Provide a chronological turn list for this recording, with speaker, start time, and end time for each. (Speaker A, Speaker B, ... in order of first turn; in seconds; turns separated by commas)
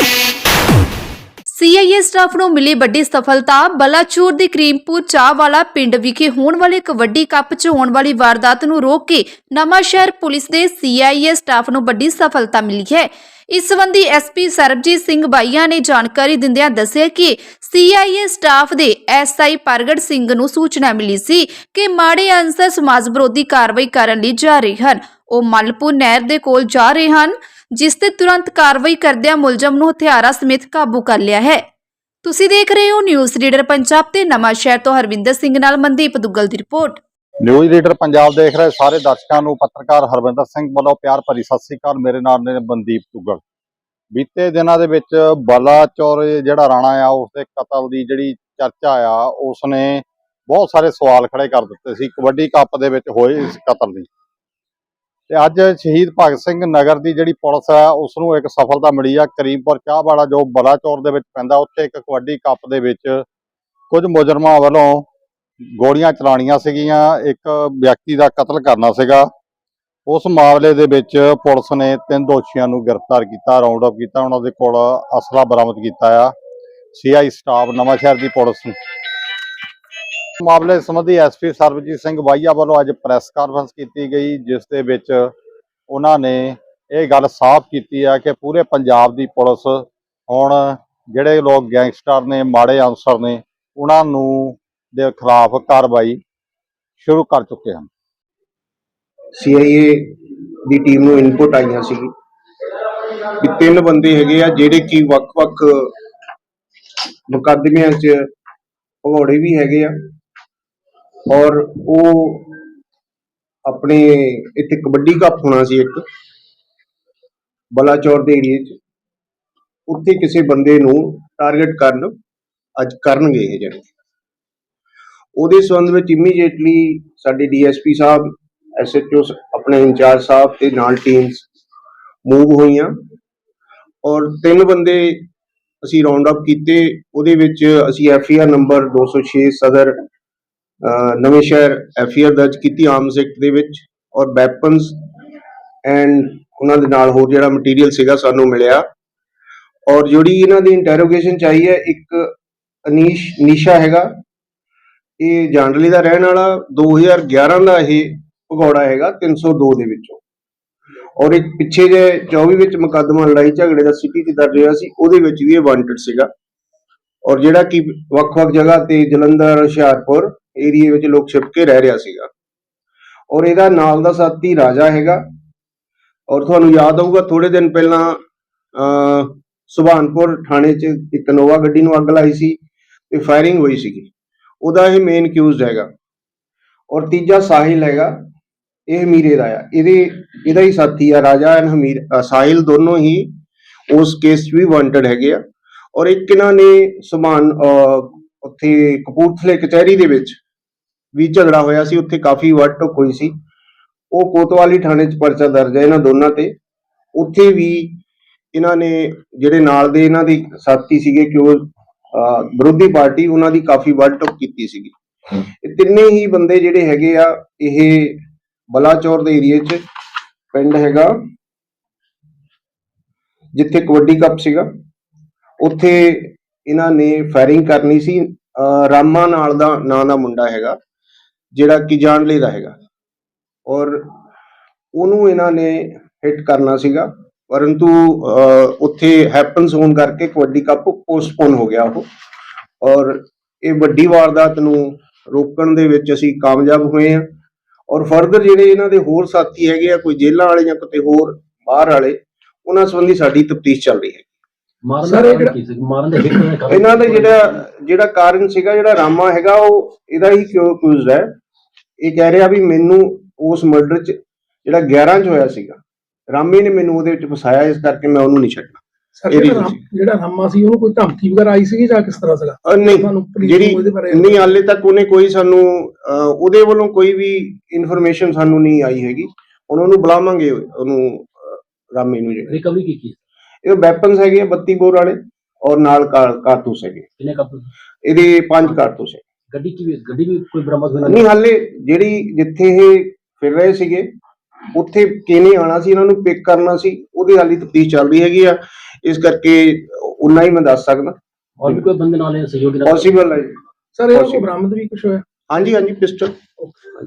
Speaker A: 1.5-31.6, Speaker A: 32.2-37.0, Speaker B: 37.4-43.4, Speaker B: 44.1-54.1, Speaker B: 55.3-63.2, Speaker B: 63.9-65.0, Speaker B: 65.8-69.3, Speaker B: 70.0-76.3, Speaker B: 76.9-78.7, Speaker B: 80.4-85.3, Speaker B: 85.9-96.2, Speaker B: 97.0-97.9, Speaker C: 99.3-100.1, Speaker C: 100.7-102.1, Speaker C: 103.4-105.9, Speaker C: 107.3-108.2, Speaker C: 109.0-109.9, Speaker C: 111.3-112.5, Speaker C: 113.7-116.0, Speaker C: 117.7-118.7, Speaker C: 119.9-122.1, Speaker C: 122.8-123.8, Speaker C: 125.3-128.2, Speaker C: 128.8-131.4, Speaker C: 132.2-132.9, Speaker C: 134.0-135.2, Speaker C: 135.8-139.9, Speaker C: 140.8-144.9, Speaker C: 145.8-148.8, Speaker C: 149.9-152.3, Speaker C: 152.8-154.1, Speaker C: 155.2-160.2, Speaker C: 161.2-166.3, Speaker C: 167.2-172.3, Speaker C: 173.3-175.2, Speaker C: 176.3-178.2, Speaker C: 178.7-182.6, Speaker C: 183.1-184.1, Speaker C: 184.6-185.9, Speaker C: 186.9-188.1, Speaker C: 188.9-193.3, Speaker C: 193.9-195.4, Speaker C: 195.9-200.4, Speaker C: 201.1-203.3, Speaker C: 204.1-206.5, Speaker C: 207.1-208.0, Speaker C: 208.5-214.9, Speaker C: 215.6-218.2, Speaker C: 218.7-219.8, Speaker C: 220.5-221.1, Speaker C: 223.5-224.7, Speaker C: 225.6-230.8, Speaker C: 231.5-232.8, Speaker C: 233.7-234.0, Speaker C: 234.9-242.1, Speaker C: 242.8-247.2, Speaker C: 247.9-254.2, Speaker D: 254.8-257.6, Speaker E: 255.0-255.5, Speaker C: 256.7-261.3, Speaker C: 262.0-265.8, Speaker C: 266.3-269.8, Speaker E: 269.1-274.5, Speaker C: 272.6-282.6, Speaker D: 282.5-283.2, Speaker C: 283.6-287.0, Speaker D: 287.2-287.7, Speaker C: 288.0-289.2, Speaker D: 288.6-288.9, Speaker D: 289.5-291.3, Speaker C: 291.0-294.1, Speaker C: 294.7-301.8, Speaker D: 301.6-303.2, Speaker C: 302.8-303.5, Speaker E: 303.9-305.2, Speaker C: 304.1-304.5, Speaker C: 305.5-306.4